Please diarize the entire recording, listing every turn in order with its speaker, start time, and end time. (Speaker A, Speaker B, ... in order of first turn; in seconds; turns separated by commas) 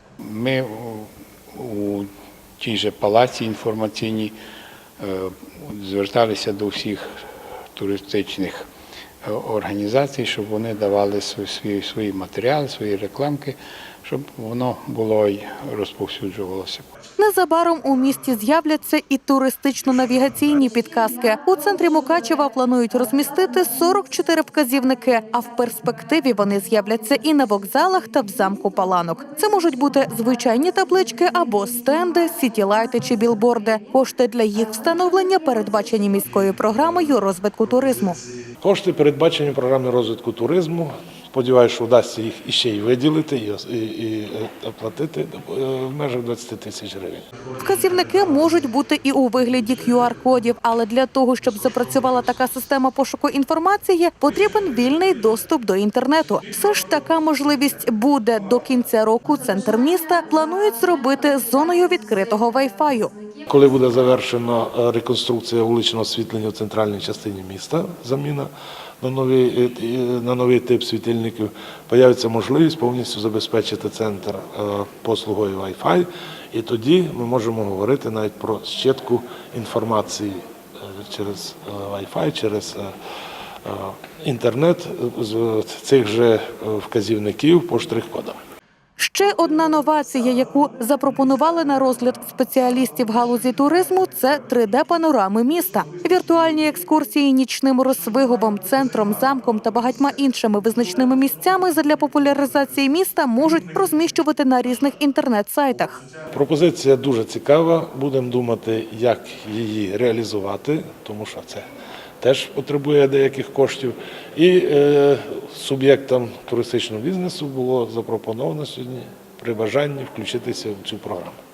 Speaker A: 0.2-2.1, Speaker A: 2.6-4.4, Speaker A: 5.0-7.1, Speaker A: 7.7-8.7, Speaker A: 9.2-16.9, Speaker B: 17.2-38.2, Speaker C: 38.6-47.3, Speaker B: 47.6-63.1, Speaker C: 63.5-82.9, Speaker C: 83.6-88.4, Speaker B: 89.0-106.0, Speaker C: 106.3-111.7, Speaker C: 112.2-121.4